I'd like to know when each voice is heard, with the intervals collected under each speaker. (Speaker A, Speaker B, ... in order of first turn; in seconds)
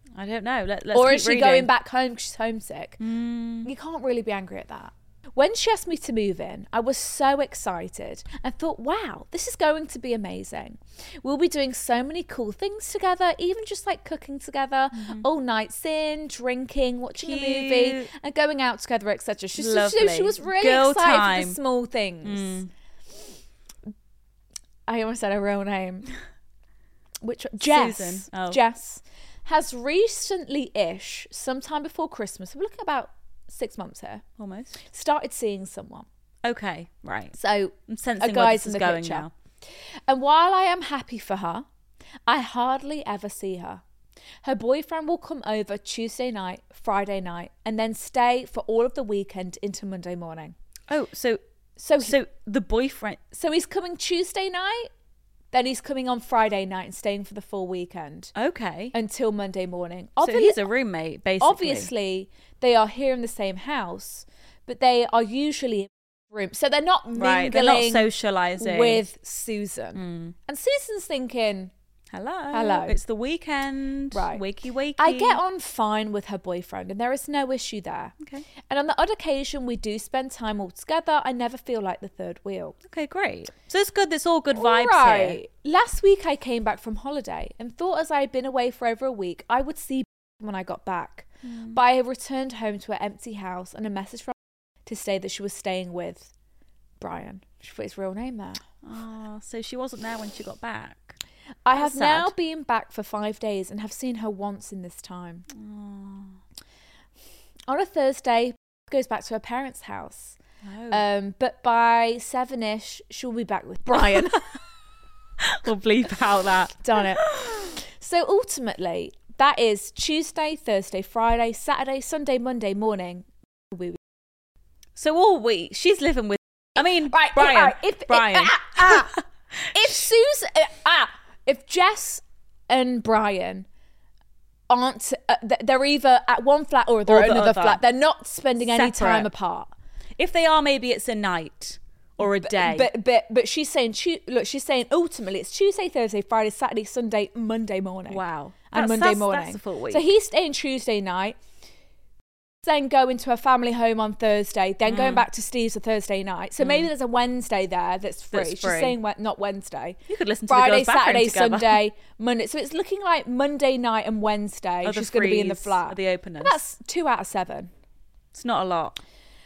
Speaker A: 0.1-1.7, 3.0-3.7, 14.9-15.2, 17.1-18.1, 19.5-21.6, 22.2-22.7, 27.6-28.6, 34.4-34.8, 36.4-37.4, 37.9-39.3, 50.9-51.4, 52.0-53.2, 58.3-58.9, 60.2-61.9, 67.2-69.0, 69.9-70.3, 72.1-75.4, 82.9-85.4, 91.4-91.8, 98.8-101.2, 101.7-102.3, 105.5-106.4, 110.6-111.0, 115.4-117.7, 125.0-129.2, 137.1-137.8, 138.6-139.3, 140.2-142.9, 148.1-150.1, 154.8-155.2, 156.6-156.9, 158.3-159.0, 160.1-161.8, 164.8-166.6, 168.3-169.0
Speaker B: 0.9-3.0, 3.6-22.6, 24.9-26.1, 27.2-34.2, 34.8-36.1, 37.3-39.3, 40.1-41.6, 42.3-43.8, 44.4-50.5, 51.8-52.1, 53.3-54.9, 55.5-58.3, 58.9-60.6, 61.4-71.7, 72.5-73.0, 74.1-74.4, 75.0-78.1, 78.7-82.8, 84.5-94.3, 94.8-96.3, 97.0-98.6, 101.7-105.5, 107.7-110.4, 110.9-114.5, 116.8-124.0, 126.8-129.2, 129.7-133.7, 134.7-139.7, 142.2-151.4, 152.6-167.7